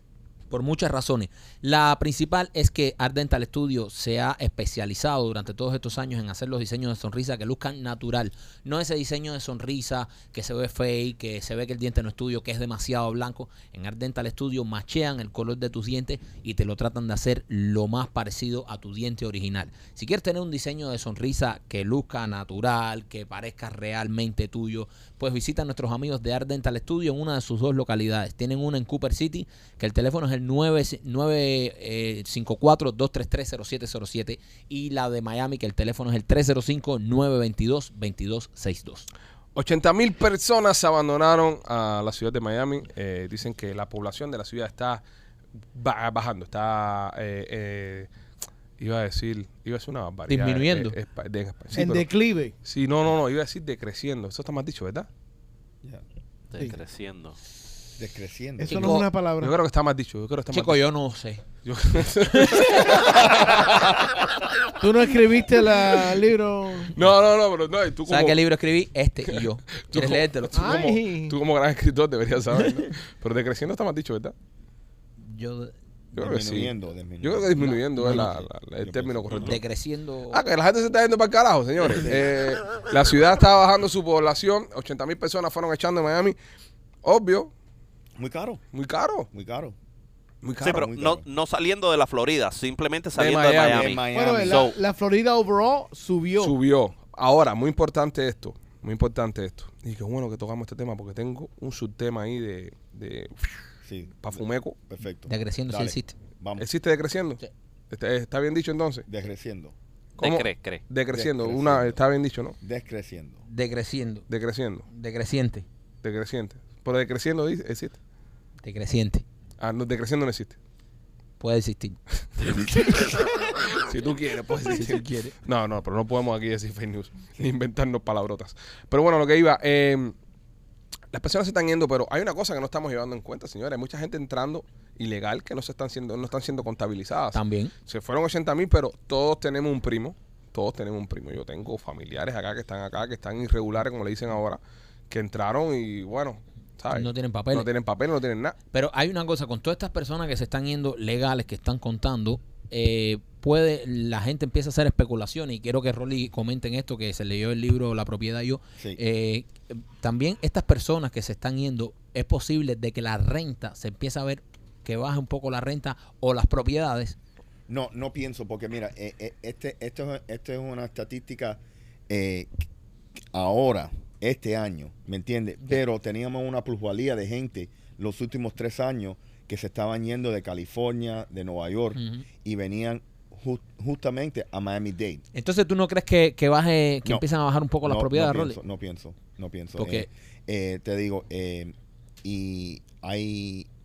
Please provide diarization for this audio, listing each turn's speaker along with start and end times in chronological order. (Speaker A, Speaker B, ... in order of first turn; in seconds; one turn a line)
Speaker A: 0.5-39.1
Speaker B: 39.5-45.0
Speaker B: 45.7-48.1
Speaker B: 48.8-52.1
Speaker A: 50.3-51.0
Speaker C: 51.7-52.6
Speaker B: 52.6-55.1
Speaker D: 56.5-57.4
Speaker E: 58.0-58.9
Speaker C: 58.6-59.5
Speaker A: 58.7-59.1
Speaker B: 59.4-60.8
Speaker A: 60.5-61.4
Speaker B: 61.6-63.3
Speaker C: 64.8-66.9
Speaker B: 66.9-68.4
Speaker A: 68.1-70.8
Speaker B: 69.9-74.3
Speaker C: 70.5-71.3
Speaker A: 75.2-76.2
Speaker B: 76.2-79.6
Speaker E: 76.2-79.6
Speaker A: 77.6-78.4
Speaker A: 79.4-80.4
Speaker B: 80.3-86.4
Speaker B: 87.0-87.5
Speaker E: 88.2-88.6
Speaker B: 88.7-89.3
Speaker E: 89.3-89.8
Speaker B: 90.4-90.9
Speaker D: 90.6-94.8
Speaker E: 90.6-91.2
Speaker B: 93.2-94.0
Speaker E: 93.6-94.7
Speaker C: 94.1-96.5
Speaker B: 96.4-103.5
Speaker E: 103.8-106.7
Speaker B: 104.2-104.8
Speaker A: 105.3-106.2
Speaker B: 106.6-109.1
Speaker E: 109.1-109.7
Speaker D: 110.2-110.8
Speaker B: 110.2-112.6
Speaker E: 111.1-112.0
Speaker E: 112.6-113.4
Speaker A: 113.5-114.2
Speaker B: 114.3-114.9
Speaker A: 114.9-115.7
Speaker B: 116.0-118.0
Speaker A: 118.6-119.2
Speaker B: 119.6-120.6
Speaker A: 121.4-122.0
Speaker B: 123.8-130.1
Speaker A: 124.7-125.3
Speaker B: 131.1-148.6
Speaker A: 137.3-137.7
Speaker A: 146.9-147.7
Speaker A: 148.7-167.2
Speaker E: 167.7-172.5
Speaker E: 173.3-185.2
Speaker A: 181.9-182.2
Speaker A: 185.3-188.6
Speaker E: 187.8-193.7
Speaker A: 189.8-190.1